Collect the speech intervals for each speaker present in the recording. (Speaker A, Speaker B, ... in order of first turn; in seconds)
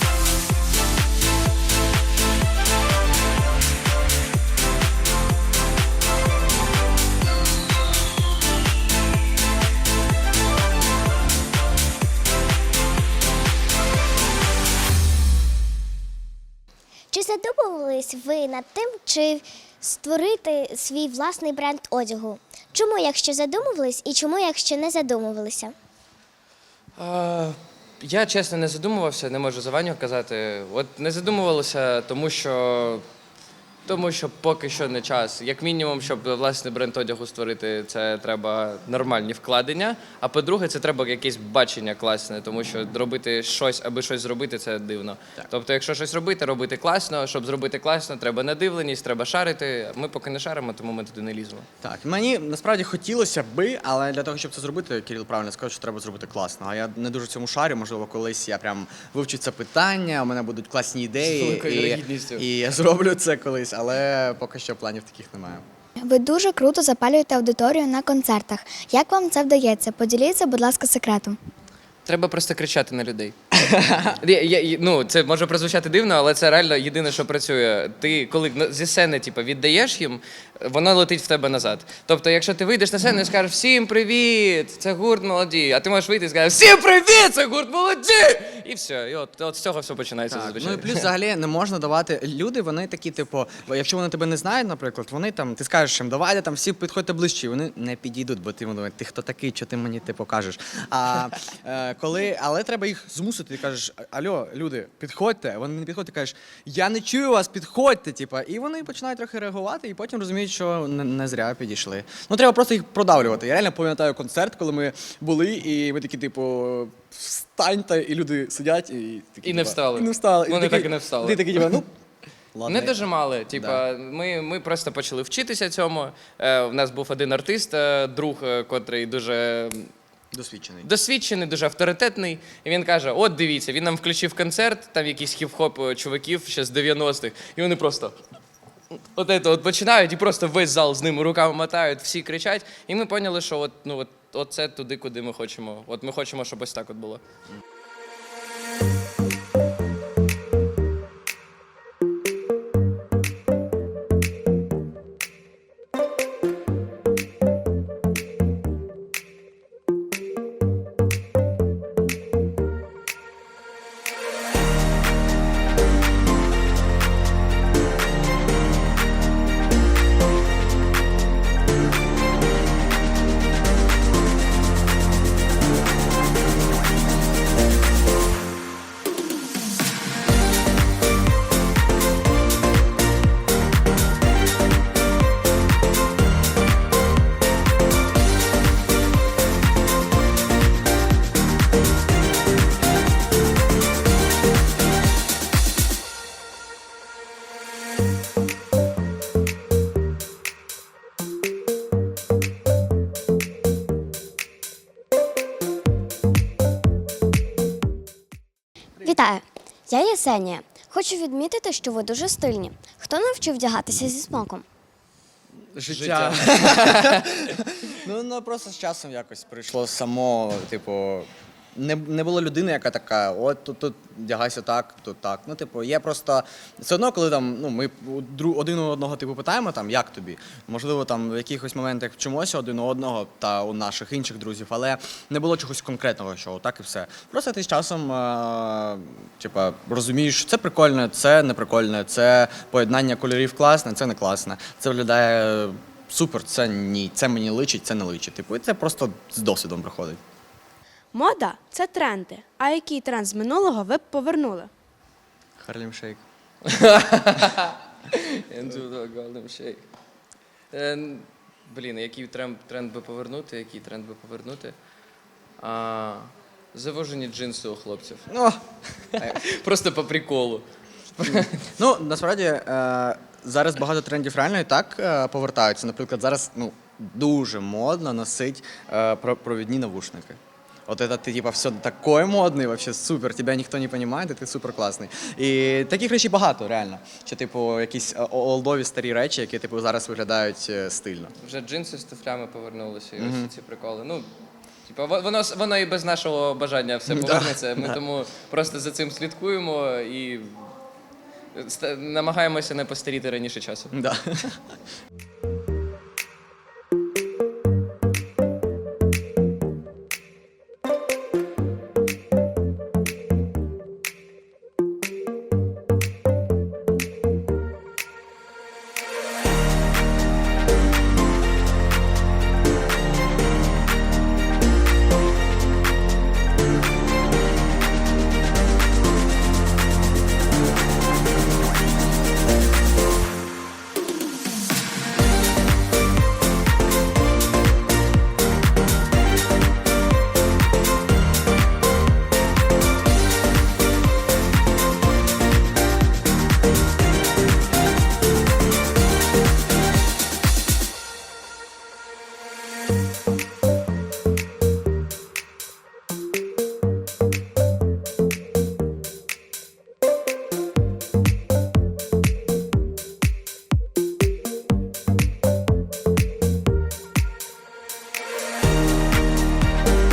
Speaker A: 17.1-25.7
Speaker B: 27.0-33.0, 33.9-51.7, 61.2-62.5, 72.0-73.3, 74.2-91.1, 119.4-121.5, 122.7-129.9, 130.8-138.2, 139.1-147.2, 215.8-217.6, 256.6-259.8, 260.7-264.7, 265.6-268.3, 269.1-270.6, 271.2-271.7, 291.4-294.3, 294.8-300.7, 301.5-303.9
Speaker C: 51.8-65.7, 73.5-74.2, 90.3-121.9, 122.5-123.0, 123.5-123.8, 130.3-130.9, 215.6-250.2, 255.6-256.2, 268.3-268.6, 269.2-269.4, 271.2-291.3, 293.2-293.5, 297.1-298.0, 303.9-304.6
Speaker D: 66.0-71.4
Speaker E: 209.0-214.6
Speaker F: 251.1-254.7